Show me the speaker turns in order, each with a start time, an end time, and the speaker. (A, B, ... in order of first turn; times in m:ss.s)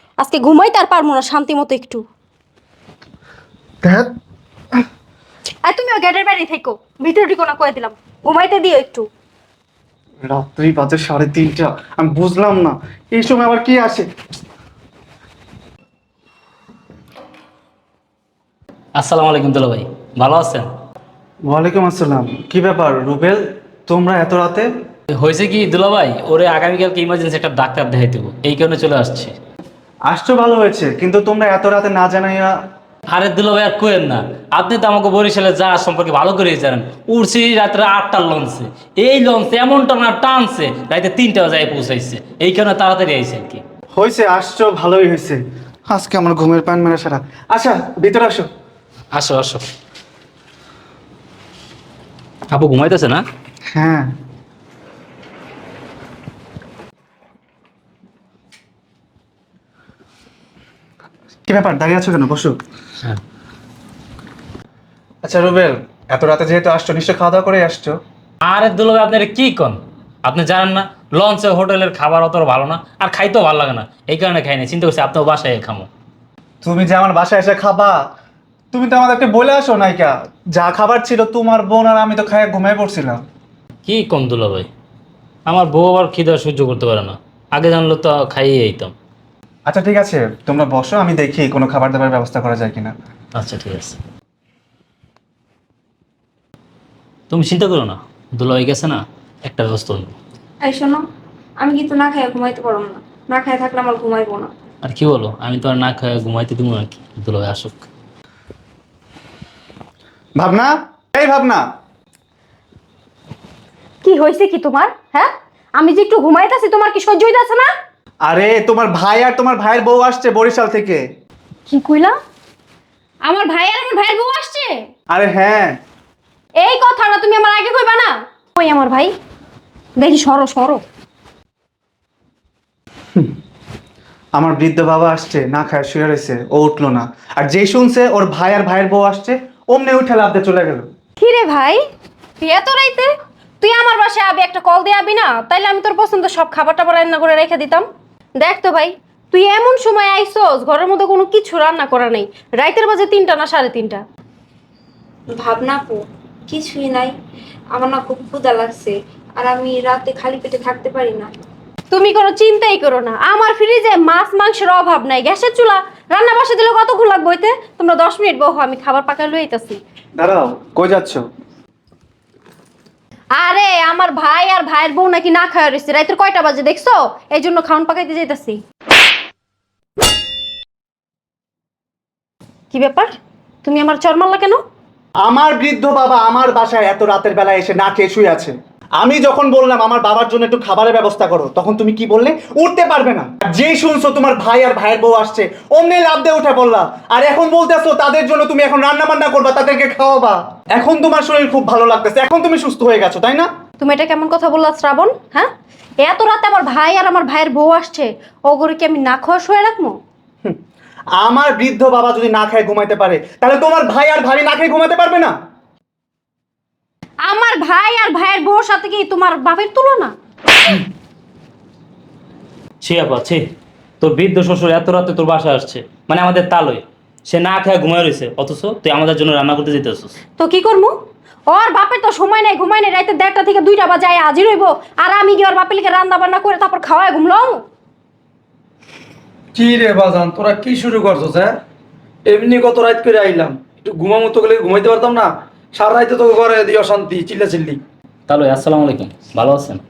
0:00.2-0:02.0 A
0:03.8-0:04.1 B
0:05.6-0:09.1 A
0:10.2-0:14.1 B
0:19.0-0:20.7 C
0:21.4-0:24.7 B
0:25.1-0:29.4 C
0:30.1-0:32.6 B
0:33.1-0:43.6 C
0:44.0-0:48.5 B
0:49.1-0:49.6 C
0:52.5-0:53.2 C
0:53.7-0:54.2 B
1:01.5-1:02.6 B
1:05.2-1:08.0 B
1:08.4-1:15.9 C
1:16.6-1:18.0 B
1:18.7-1:23.2 B
1:23.9-1:24.7 C
1:25.5-1:28.9 C
1:29.7-1:33.0 B
1:33.4-1:34.0 C
1:37.3-1:40.2 C
1:40.6-1:41.0 D
1:41.6-1:44.5 D
1:44.8-1:47.8 C
1:50.4-1:51.6 B
1:54.0-1:57.7 A
1:58.2-2:01.0 B
2:01.7-2:02.2 A
2:03.2-2:04.8 A
2:05.1-2:05.8 B
2:06.6-2:09.1 A
2:10.0-2:10.8 A
2:14.4-2:20.8 B
2:21.2-2:21.8 A
2:22.4-2:27.8 A
2:28.4-2:34.0 A
2:35.3-2:37.1 D
2:37.7-2:41.3 D
2:41.9-2:49.8 A
2:50.2-2:51.2 B
2:53.4-2:58.6 A
3:02.7-3:03.1 A
3:03.6-3:04.6 A
3:05.2-3:23.5 B
3:23.8-3:25.5 A
3:26.0-3:30.0 A
3:31.2-3:35.3 B
3:37.2-3:40.1 A
3:42.8-3:43.4 C
3:44.0-3:50.2 C
3:50.4-3:50.9 A
3:51.5-3:57.6 A
3:59.6-4:01.5 E
4:02.3-4:07.8 E
4:08.3-4:09.8 C